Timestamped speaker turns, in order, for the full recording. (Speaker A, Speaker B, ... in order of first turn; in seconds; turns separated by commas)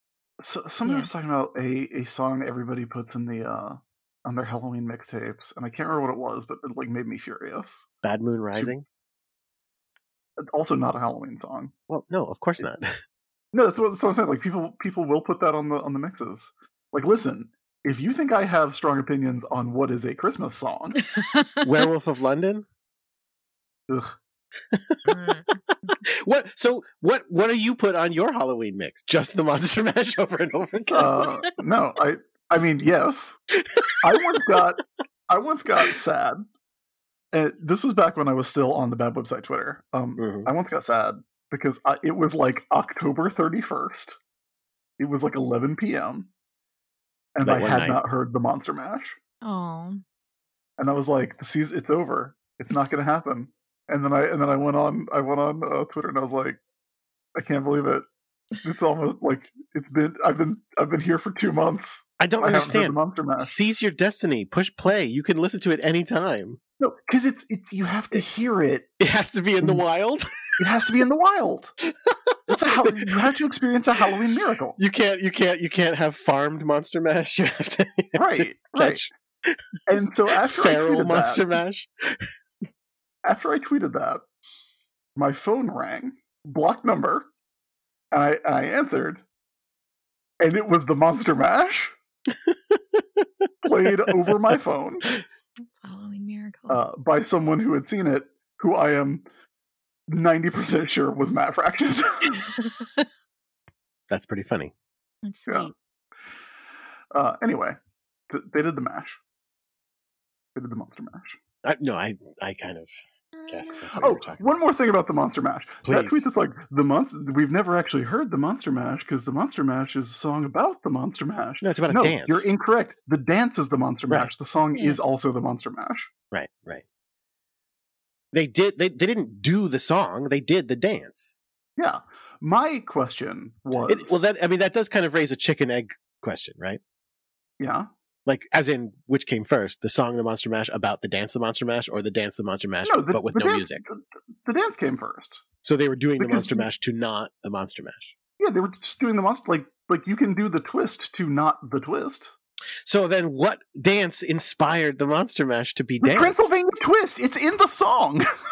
Speaker A: 0.4-7.9, Speaker B: 8.0-8.8, Speaker A: 10.4-11.7, Speaker B: 11.9-13.0, Speaker A: 13.5-21.0, Speaker C: 21.1-21.6, Speaker B: 21.6-22.7, Speaker A: 23.9-24.1, Speaker B: 24.7-25.0, Speaker C: 25.1-25.9, Speaker B: 26.1-31.3, Speaker A: 30.9-33.4, Speaker B: 33.6-34.3, Speaker A: 34.0-36.4, Speaker A: 37.3-44.2, Speaker B: 40.2-40.5, Speaker A: 45.0-46.3, Speaker A: 47.4-49.2, Speaker B: 47.4-48.0, Speaker C: 49.4-50.0, Speaker A: 50.8-56.6, Speaker A: 57.4-58.1, Speaker A: 58.6-63.5, Speaker B: 62.2-66.6, Speaker A: 66.8-68.9, Speaker B: 69.0-70.5, Speaker A: 70.6-71.8, Speaker B: 72.1-73.1, Speaker A: 72.5-74.8, Speaker B: 74.8-79.6, Speaker A: 78.2-79.0, Speaker A: 79.9-81.4, Speaker B: 80.4-82.3, Speaker A: 83.2-84.2, Speaker A: 85.2-87.3, Speaker A: 88.1-89.2, Speaker A: 90.4-91.9, Speaker B: 92.7-93.2, Speaker A: 93.6-95.1, Speaker C: 95.7-96.8, Speaker A: 96.7-99.3, Speaker A: 100.1-102.5, Speaker B: 104.1-104.7, Speaker C: 105.2-105.7, Speaker A: 107.1-107.8, Speaker A: 108.3-109.2, Speaker A: 110.5-111.4, Speaker B: 111.7-112.9, Speaker C: 113.4-113.7, Speaker B: 113.5-114.5, Speaker A: 114.0-126.1, Speaker B: 115.9-116.3, Speaker B: 121.6-122.5, Speaker C: 124.8-125.0, Speaker B: 126.3-126.8, Speaker B: 128.3-131.3, Speaker A: 131.8-134.2, Speaker B: 133.9-136.8, Speaker A: 137.6-137.9, Speaker B: 138.3-143.8, Speaker A: 142.8-145.4, Speaker B: 145.6-148.2, Speaker A: 146.2-146.7, Speaker A: 148.4-152.3, Speaker B: 152.8-156.5, Speaker A: 156.0-158.2